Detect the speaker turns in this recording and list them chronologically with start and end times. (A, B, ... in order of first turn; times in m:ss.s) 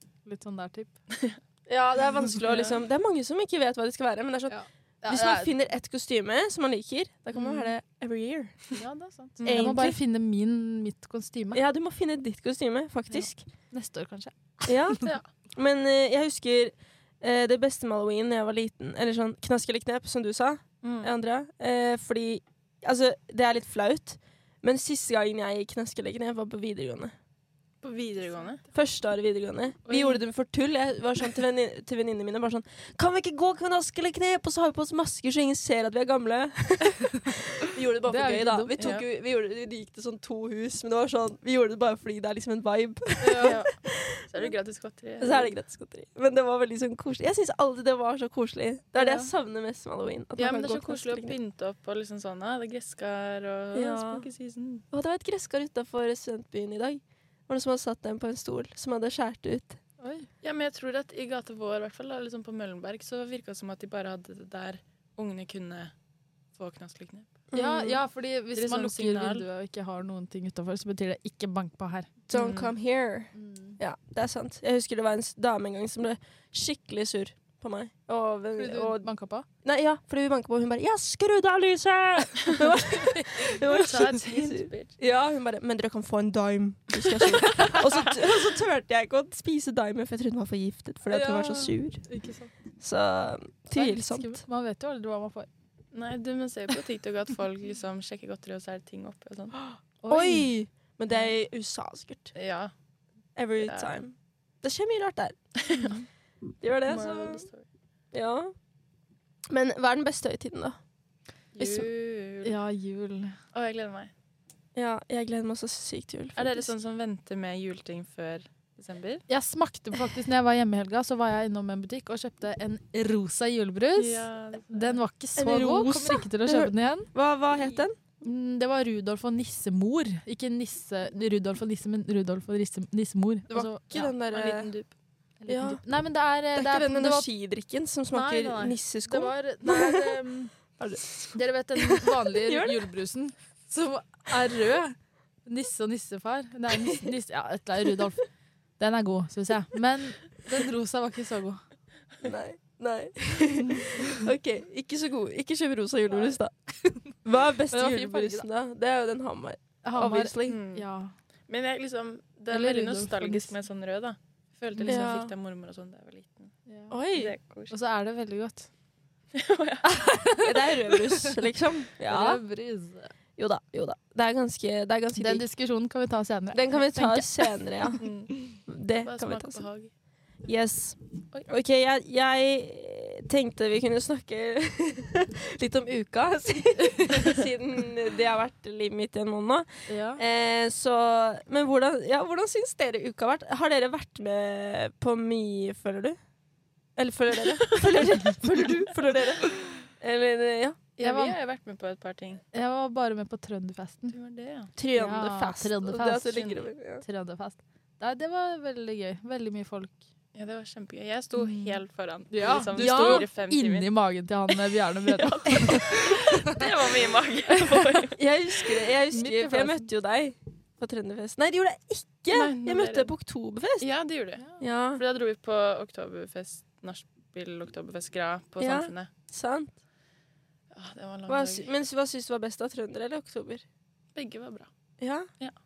0:00.2-0:00.9 A
0:01.7-0:08.6 B
0:04.5-0:05.5 A
0:07.4-0:07.6 A
0:08.7-0:11.6 A
0:09.4-0:09.8 C
0:09.4-0:10.0 B
0:11.5-0:13.4 B
0:13.1-0:15.0 A
0:14.6-0:27.1 B
0:20.8-0:21.1 C
0:27.8-0:28.6 C
0:28.7-0:44.5 B
0:29.9-0:30.2 C
0:38.1-0:38.8 A
0:38.8-0:39.0 C
0:43.2-0:43.6 A
0:43.4-0:45.5 C
0:45.2-0:51.4 B
0:49.0-0:49.2 A
0:50.4-0:54.8 C
0:53.7-0:54.2 B
0:54.9-0:59.8 B
1:00.0-1:00.3 A
1:00.4-1:05.9 C
1:06.5-1:07.4 C
1:07.5-1:08.0 B
1:07.5-1:12.1 A
1:08.5-1:09.4 C
1:12.3-1:19.1 B
1:12.3-1:12.7 C
1:13.3-1:13.8 A
1:18.6-1:19.4 A
1:19.6-1:32.0 B
1:22.9-1:23.6 A
1:23.6-1:25.0 C
1:31.1-1:32.5 A
1:32.8-1:34.4 B
1:33.7-1:35.5 A
1:35.9-1:39.6 C
1:40.0-1:40.5 A
1:40.1-1:42.3 B
1:42.3-1:42.7 C
1:43.4-1:45.4 B
1:43.6-1:44.0 C
1:45.6-1:46.0 C
1:46.6-1:47.4 B
1:46.9-1:47.6 C
1:48.1-1:48.5 B
1:49.5-1:50.8 B
1:51.5-1:52.6 C
1:51.6-1:51.9 B
1:52.4-1:53.4 A
1:53.5-1:54.1 C
1:54.7-1:56.7 B
1:56.4-1:59.2 C
1:59.3-2:07.1 A
2:04.0-2:05.0 C
2:05.4-2:08.0 B
2:08.2-2:14.1 A
2:13.5-2:14.7 B
2:14.3-2:14.9 C
2:15.4-2:17.3 A
2:15.5-2:15.8 B
2:16.5-2:20.2 B
2:18.1-2:20.5 A
2:20.8-2:22.9 B
2:21.3-2:28.2 A
2:26.7-2:27.1 B
2:28.8-2:31.6 A
2:32.2-2:36.5 B
2:37.1-2:40.6 B
2:37.7-2:38.5 A
2:39.8-2:41.1 A
2:40.4-2:40.8 C
2:41.5-2:46.5 C
2:42.5-2:43.5 A
2:44.7-2:45.1 A
2:44.9-2:45.3 B
2:46.7-2:46.9 A
2:46.9-2:47.3 B
2:47.1-2:47.7 C
2:47.7-2:48.7 A
2:49.3-2:49.9 C
2:49.9-2:51.4 A
2:50.4-2:52.4 B
2:52.1-2:53.1 A
2:53.4-2:55.4 B
2:55.2-2:58.0 A
2:56.5-2:58.0 B
2:58.0-2:59.9 C
2:58.7-2:59.6 B
3:00.4-3:16.2 B
3:06.9-3:07.2 A
3:09.9-3:10.2 A
3:17.0-3:20.9 B
3:17.6-3:18.0 C
3:21.0-3:22.4 C
3:21.0-3:21.4 A
3:22.5-3:24.1 A
3:24.1-3:24.7 C
3:24.8-3:27.0 B
3:24.9-3:30.0 A
3:30.3-3:33.9 C
3:31.4-3:36.6 A
3:32.8-3:33.2 B
3:35.0-3:38.2 C
3:38.2-3:43.9 B
3:39.1-3:39.9 A
3:42.3-3:43.1 C
3:43.8-3:49.1 C
3:44.6-3:45.0 B
3:48.6-3:49.8 B
3:50.7-3:51.7 C
3:51.3-3:53.6 B
3:54.1-3:54.7 C
3:55.0-3:55.3 B